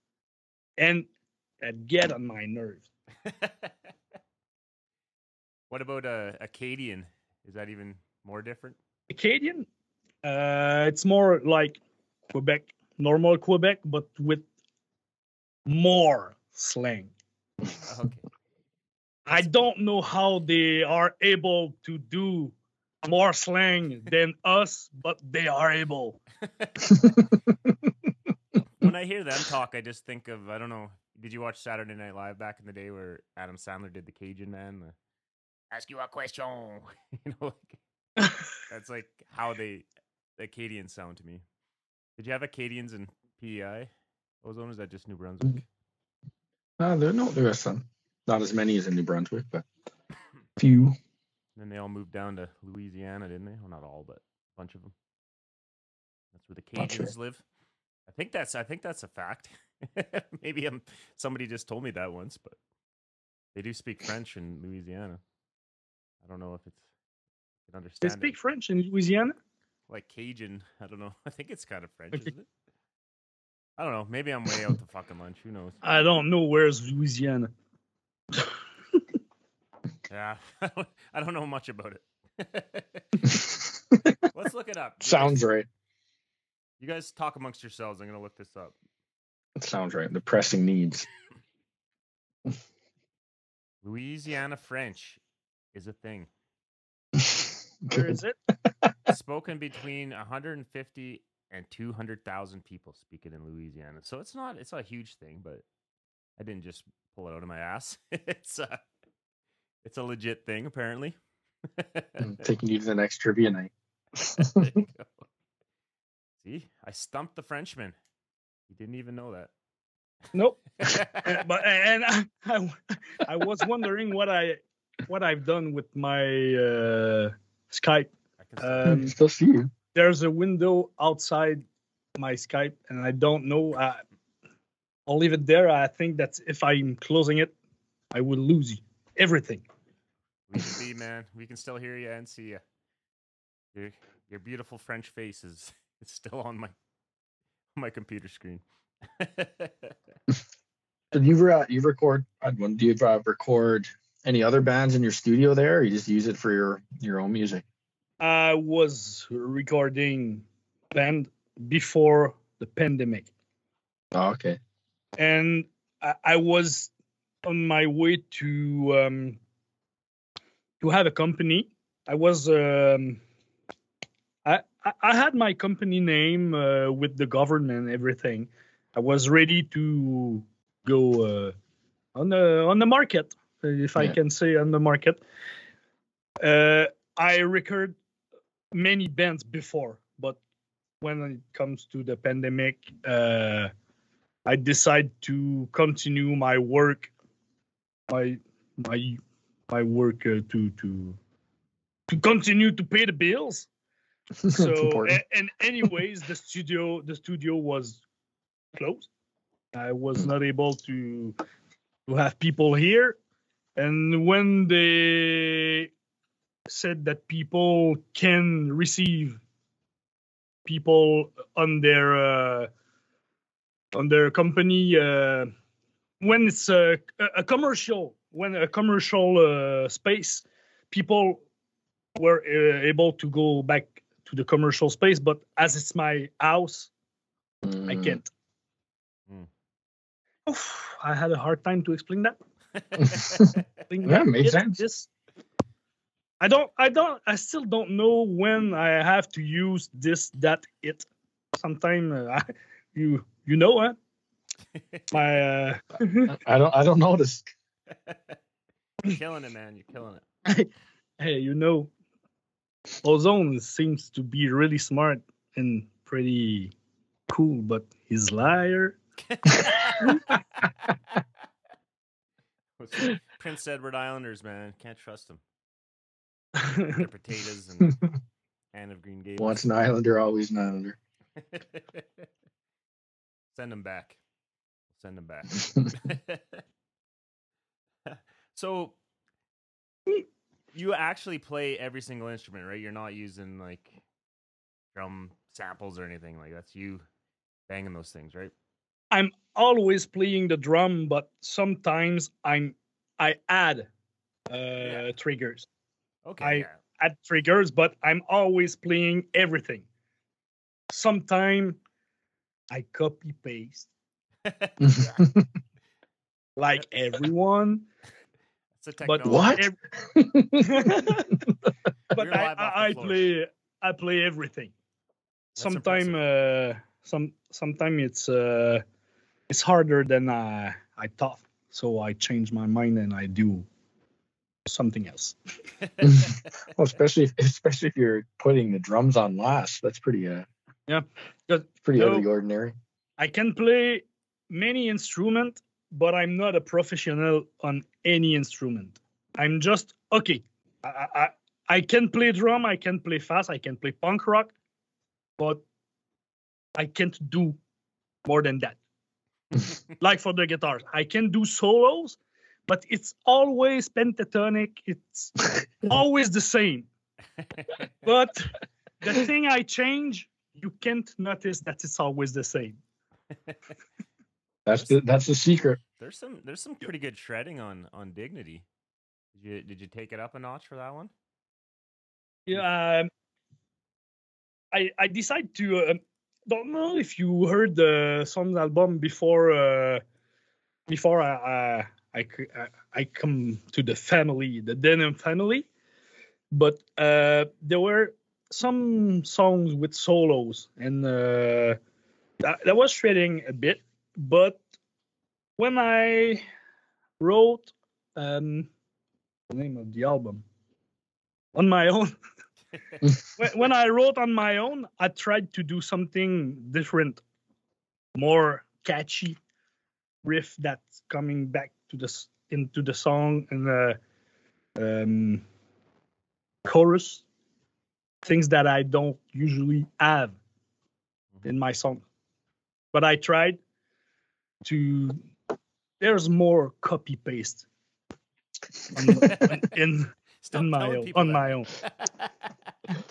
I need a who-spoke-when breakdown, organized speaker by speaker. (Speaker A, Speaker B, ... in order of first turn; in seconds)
Speaker A: 0.8-1.1, 1.6-2.8, 9.1-9.7, 10.2-11.8, 12.3-14.4, 15.7-17.1, 19.3-26.2, 68.0-69.3, 75.8-77.5, 97.9-98.4, 120.3-129.1, 129.9-131.6, 132.2-134.0, 135.1-137.5, 138.1-139.6, 158.2-163.3, 165.2-166.9, 167.4-169.4, 170.8-173.2, 174.4-181.5, 182.2-185.2, 186.4-187.9, 188.7-190.4, 191.0-193.7, 194.4-197.1, 198.1-201.2, 202.1-203.7, 204.5-208.0, 208.7-209.1, 209.7-211.4, 212.1-213.2, 213.8-215.9, 216.7-219.4, 220.7-222.7, 223.9-225.5, 226.2-231.4, 232.2-236.9, 237.9-238.3, 240.4-242.4, 243.9-245.1, 246.4-254.0, 255.1-256.4, 261.2-261.9, 263.0-266.7, 267.3-269.0, 276.6-277.0, 299.1-303.9, 304.5-305.7, 306.4-309.8, 310.9-311.8, 312.7-313.9, 316.6-317.9, 319.0-319.8, 320.6-321.4, 322.1-324.7, 325.6-328.8, 329.5-333.7, 334.7-335.4, 340.9-342.3, 343.2-354.5, 355.4-355.6, 356.8-357.6, 358.2-358.8, 360.0-366.9, 368.0-372.8, 382.5-383.1, 384.7-390.0, 390.9-395.7, 396.5-401.8, 402.4-404.6, 405.6-406.4, 407.2-408.7, 409.5-410.4, 411.5-412.1, 413.4-417.2, 418.1-419.4, 420.2-424.0, 424.8-425.4, 426.6-427.2, 428.2-430.4, 431.4-432.0, 432.9-433.6, 434.6-435.2, 436.0-437.6, 438.9-441.7
Speaker B: 3.2-3.7, 5.7-8.8, 17.8-18.2, 26.5-26.9, 28.8-34.9, 35.7-37.8, 38.7-39.8, 40.4-41.4, 42.2-43.9, 44.4-45.6, 51.5-54.9, 56.3-57.4, 58.1-62.6, 63.5-65.2, 66.2-66.8, 67.7-68.3, 69.9-72.5, 73.8-75.8, 80.1-83.1, 84.3-85.5, 86.8-88.8, 93.8-95.2, 95.7-96.3, 99.1-105.6, 106.4-108.8, 109.8-111.2, 111.8-112.3, 114.4-115.2, 116.4-118.0, 118.7-119.5, 120.8-121.3, 128.4-128.9, 140.5-142.6, 143.7-146.7, 147.7-148.6, 149.2-149.9, 242.9-243.6, 258.1-258.3, 259.0-260.2, 269.2-270.2, 272.8-275.4, 276.9-278.0, 278.7-279.7, 281.5-282.2, 283.5-284.2, 284.9-286.6, 288.1-288.9, 290.7-294.0, 294.9-297.0, 297.7-298.5, 304.8-305.1, 306.2-306.8, 314.4-315.2, 318.8-319.6, 322.1-323.3, 325.6-326.2, 335.8-336.3, 374.7-375.0, 376.0-378.6, 379.3-381.1, 440.4-442.3
Speaker C: 46.8-49.6, 50.6-51.0, 56.8-57.1, 85.0-85.7, 89.6-91.1, 112.2-114.5, 128.8-129.7, 151.1-157.6, 164.1-164.6, 204.4-205.2, 237.6-238.2, 244.0-244.8, 256.3-257.5, 279.4-281.0, 314.8-315.4, 319.2-320.8, 336.8-340.5, 341.8-342.8, 374.6-375.8